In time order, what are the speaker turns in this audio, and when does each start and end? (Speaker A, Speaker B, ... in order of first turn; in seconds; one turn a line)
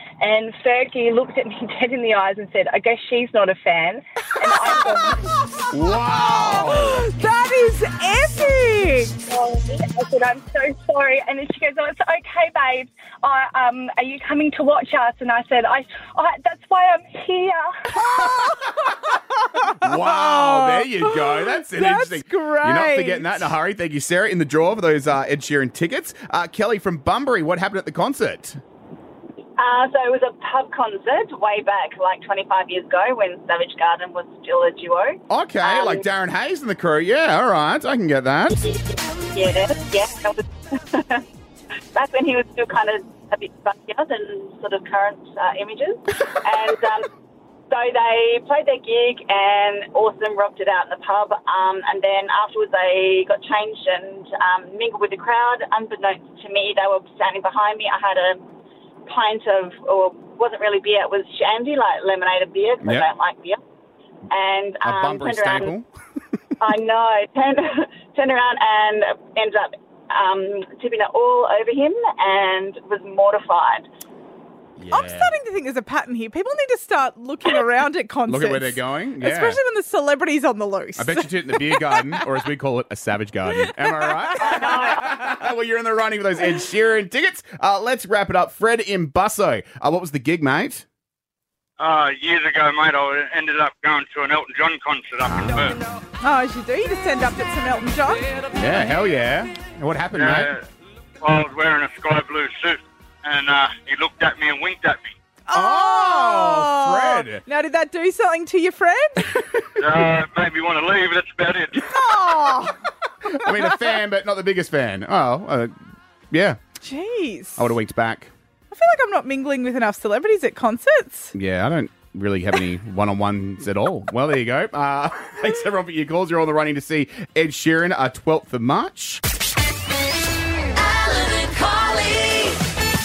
Speaker A: 0.2-5.3
Speaker B: 5.7-7.1
Speaker C: 6.3-9.2
Speaker A: 9.3-17.9
Speaker C: 17.9-23.5
Speaker B: 18.1-28.6
Speaker D: 29.6-36.0
Speaker B: 35.3-38.7
Speaker D: 39.3-41.2
Speaker D: 41.9-47.1
Speaker D: 47.7-58.4
Speaker D: 59.1-63.6
Speaker B: 62.8-63.1
Speaker D: 64.3-65.7
Speaker B: 64.8-65.9
Speaker D: 66.6-73.9
Speaker B: 74.8-75.3
Speaker C: 74.9-82.2
Speaker B: 78.3-79.6
Speaker B: 81.0-90.8
Speaker C: 83.6-84.7
Speaker D: 84.4-85.1
Speaker E: 91.8-95.8
Speaker B: 95.2-95.7
Speaker C: 96.2-98.4
Speaker B: 98.5-100.5
Speaker E: 100.2-100.7
Speaker E: 101.2-105.1
Speaker C: 105.5-109.3
Speaker B: 105.5-107.4
Speaker B: 109.3-109.8
Speaker E: 109.8-111.9
Speaker C: 111.9-112.8
Speaker B: 113.3-115.7
Speaker C: 113.4-113.7
Speaker B: 116.3-116.6
Speaker C: 116.8-117.7
Speaker B: 117.6-118.3
Speaker C: 118.7-121.3
Speaker B: 121.3-129.2